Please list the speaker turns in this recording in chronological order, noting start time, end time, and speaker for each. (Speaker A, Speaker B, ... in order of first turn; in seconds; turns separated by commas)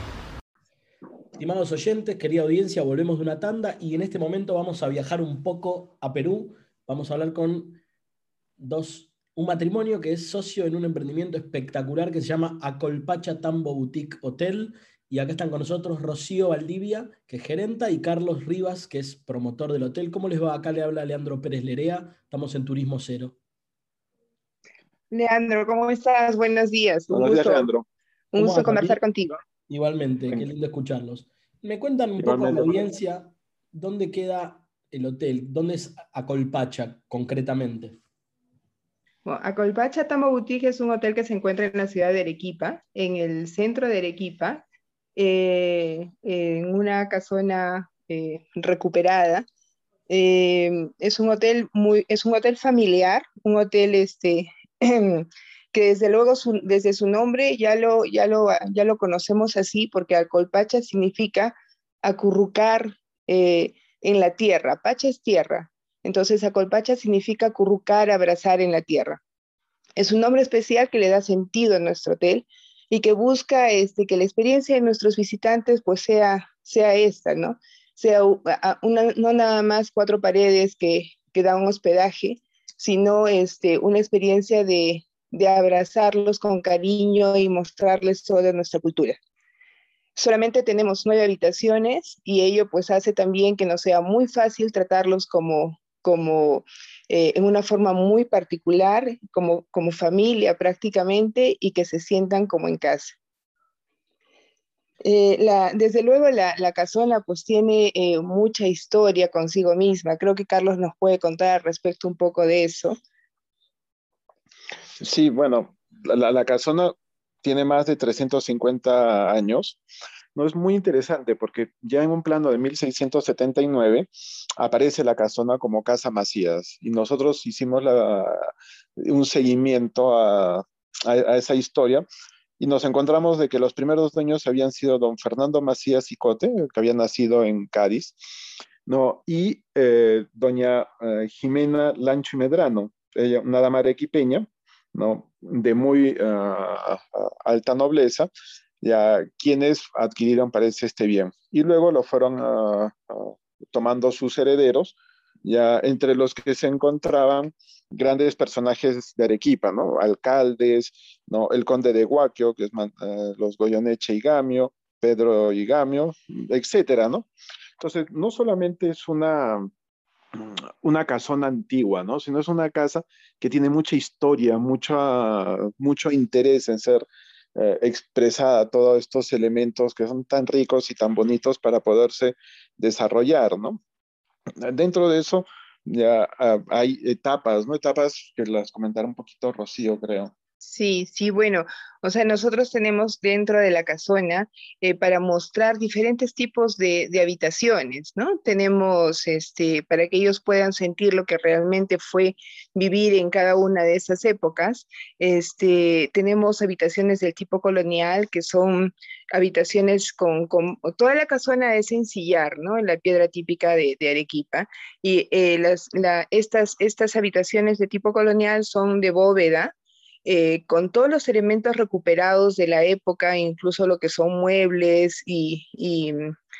Speaker A: 1.4-7.8, Speaker A: 8.6-23.4, Speaker B: 25.1-27.7, Speaker C: 27.1-27.9, Speaker B: 28.3-29.4, Speaker A: 28.4-29.0, Speaker A: 29.7-38.0, Speaker C: 32.2-32.8, Speaker B: 39.2-49.5, Speaker B: 50.1-69.2, Speaker B: 70.0-89.2, Speaker B: 90.2-103.2, Speaker B: 105.0-113.0, Speaker C: 115.0-119.8, Speaker C: 120.3-124.1, Speaker C: 124.6-132.0, Speaker C: 132.6-138.2, Speaker C: 138.8-148.3, Speaker C: 148.8-169.7, Speaker C: 170.3-177.0, Speaker C: 177.6-183.8, Speaker C: 184.6-190.3, Speaker B: 190.6-219.7, Speaker B: 220.2-226.3